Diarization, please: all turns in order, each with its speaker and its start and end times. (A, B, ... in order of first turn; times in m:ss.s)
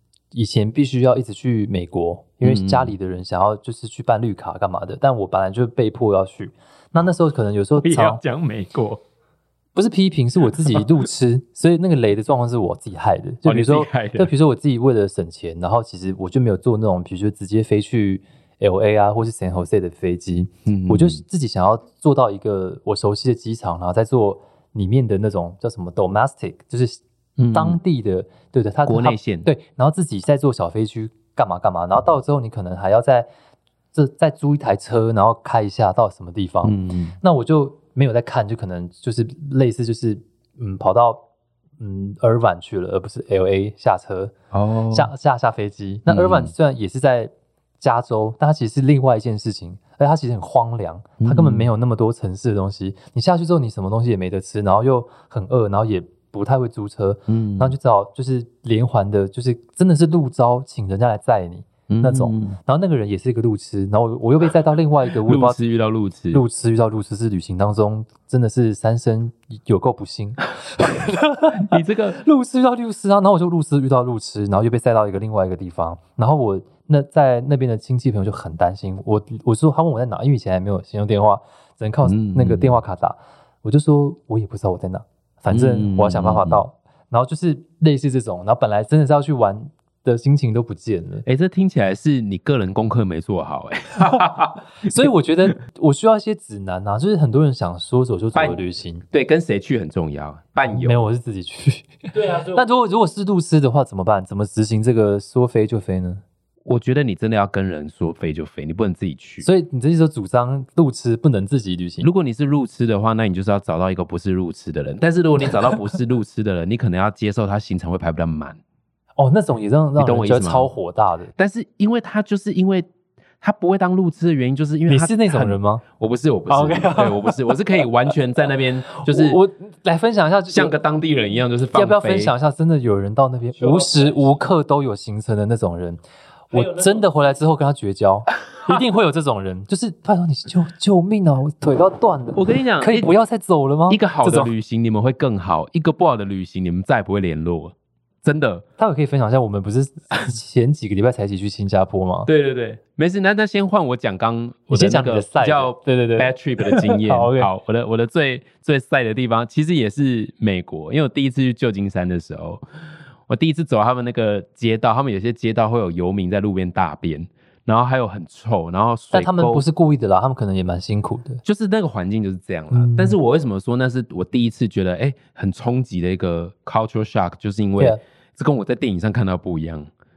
0:00.3-0:08.2 A
0:02.4-0:02.9 B
0:07.8-0:09.0 B
0:09.7-0:27.0 A
0:13.4-0:14.3 B
0:20.6-0:21.2 B
0:27.4-0:27.8 B
0:27.5-0:33.3 A
0:28.8-0:29.5 B
0:33.9-0:41.2 A
0:36.6-0:37.2 B
0:41.8-0:44.3 A
0:44.5-0:45.1 B
0:44.9-1:05.6 A
0:46.1-0:46.5 B
0:51.2-0:51.7 B
0:57.3-0:57.7 B
1:01.9-1:02.6 B
1:05.2-1:06.4 B
1:06.3-1:31.2 A
1:11.5-1:12.2 B
1:22.0-1:22.8 B
1:25.5-1:26.6 B
1:31.2-1:35.1 B
1:34.8-1:39.0 A
1:38.3-1:41.0 B
1:40.7-1:46.2 A
1:42.1-1:42.6 B
1:46.6-1:49.5 B
1:49.4-1:52.1 A
1:52.0-1:58.6 B
1:59.2-2:01.3 A
2:00.0-2:00.7 B
2:01.4-2:02.9 B
2:03.4-2:09.4 B
2:04.9-2:05.8 A
2:06.5-2:07.8 A
2:09.0-2:10.7 A
2:10.5-2:12.3 B
2:11.7-2:24.5 A
2:22.3-2:23.1 B
2:23.9-2:28.6 B
2:28.8-2:32.3 A
2:32.2-2:42.6 B
2:34.7-2:37.5 A
2:43.3-2:49.6 B
2:49.1-2:51.4 A
2:51.4-2:59.9 B
2:52.7-2:53.2 A